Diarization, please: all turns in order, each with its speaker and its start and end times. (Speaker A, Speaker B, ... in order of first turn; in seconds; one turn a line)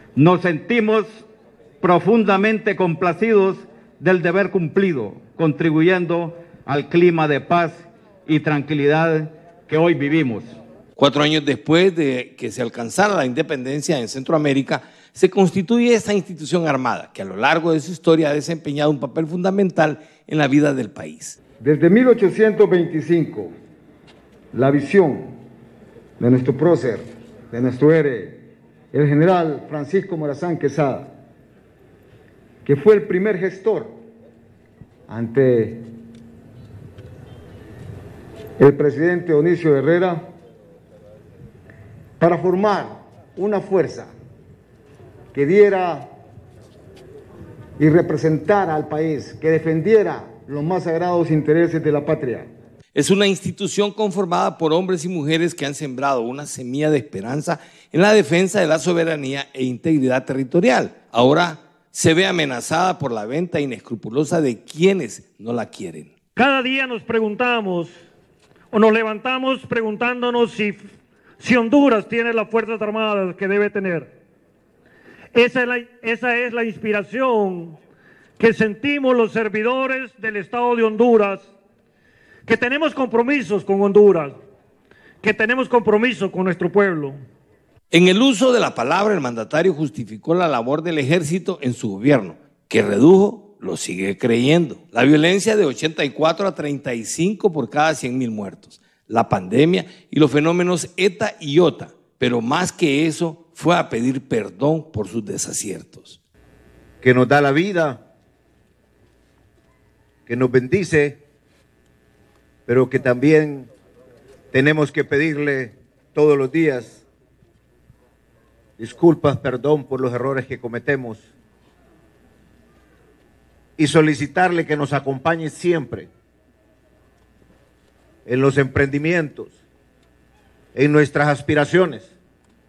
Speaker A: 0.1-1.2
Speaker A: 1.8-10.6
Speaker B: 11.0-21.4
Speaker C: 21.6-23.5
Speaker C: 24.5-25.3
Speaker C: 26.2-28.4
Speaker C: 28.9-31.1
Speaker C: 32.6-33.9
Speaker C: 35.1-35.8
Speaker C: 38.6-40.2
Speaker C: 42.2-44.1
Speaker C: 45.3-46.1
Speaker C: 47.8-52.5
Speaker B: 52.9-66.1
Speaker D: 66.3-67.9
Speaker D: 68.7-70.8
Speaker D: 71.4-74.1
Speaker D: 75.3-77.8
Speaker D: 78.4-81.5
Speaker D: 82.5-84.4
Speaker D: 85.2-87.2
Speaker B: 87.9-106.2
Speaker E: 107.0-108.0
Speaker E: 110.2-111.2
Speaker E: 112.7-113.7
Speaker E: 114.5-117.0
Speaker E: 118.8-121.2
Speaker E: 123.8-126.1
Speaker E: 128.2-129.5
Speaker E: 130.7-132.1